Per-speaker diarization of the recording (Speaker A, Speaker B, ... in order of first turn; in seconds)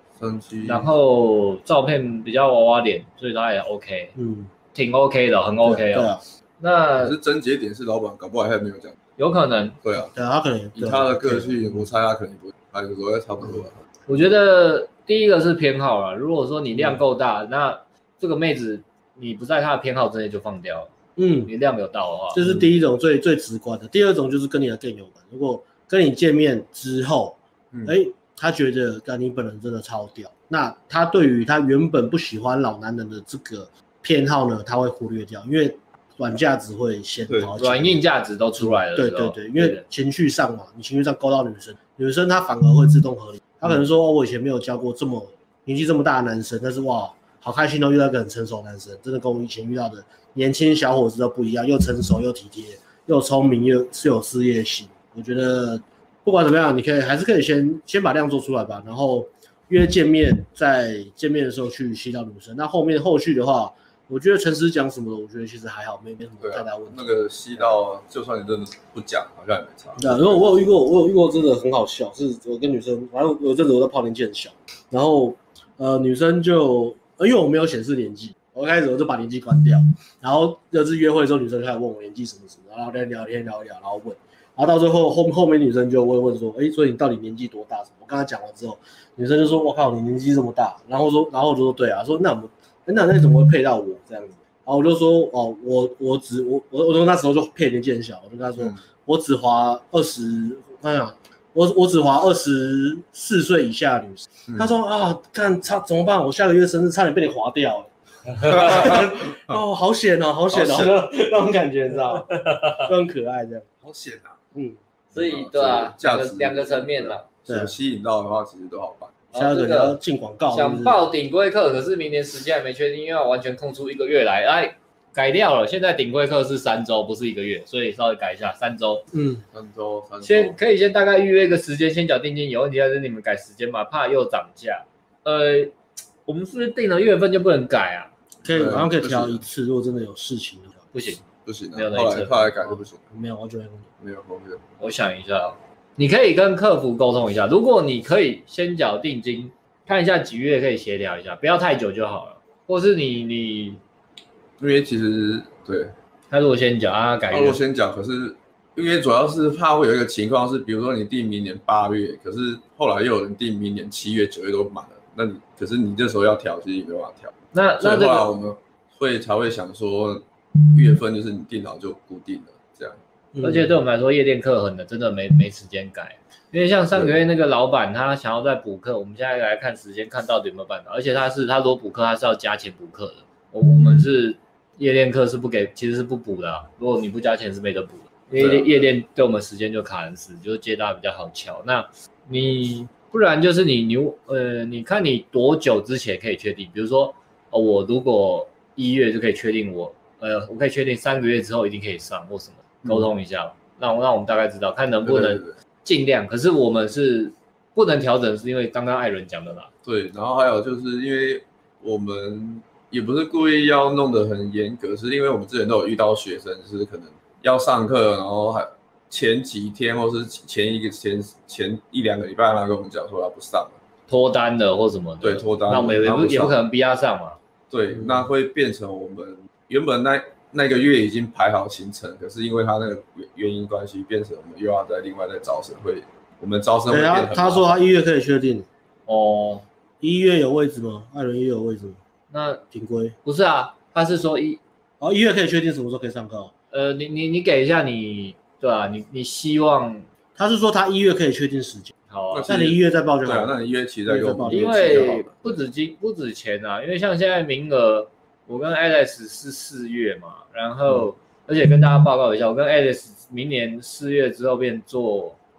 Speaker A: 0.2-0.9, 7.0-9.0, 9.8-10.1, 10.8-13.8, 66.4-70.6, 108.6-109.6, 110.5-111.0, 113.8-114.4, 115.1-119.1, 129.5-130.6, 138.5-139.4, 141.5-143.0, 144.0-144.6, 154.6-155.9, 157.3-173.0, 188.4-188.7, 205.1-205.5, 209.8-223.8, 225.2-226.6, 227.7-237.7, 252.3-255.3
Speaker B: 0.7-4.1, 4.7-7.2, 9.2-9.8, 14.1-20.9, 21.4-22.4, 37.6-39.8, 115.1-117.2, 119.3-120.0, 120.5-129.1, 130.2-135.7, 136.3-138.1, 140.9-141.2, 141.8-142.8, 144.8-153.8, 156.3-157.6, 167.5-168.3, 173.4-209.7, 224.1-227.4, 239.1-239.7, 242.3-242.6, 243.2-244.6, 246.7-250.1, 252.1-252.5, 254.5-265.4
Speaker C: 4.2-4.5, 5.6-6.2, 10.1-11.8, 21.2-21.5, 22.3-38.0, 38.6-67.7, 70.0-113.7, 117.5-117.7, 119.3-121.0, 129.1-129.4, 138.4-140.8, 143.1-143.9, 173.3-173.7, 236.9-238.7, 240.0-242.0, 242.7-243.2, 245.0-246.5, 250.4-251.9, 252.5-253.6, 254.1-255.2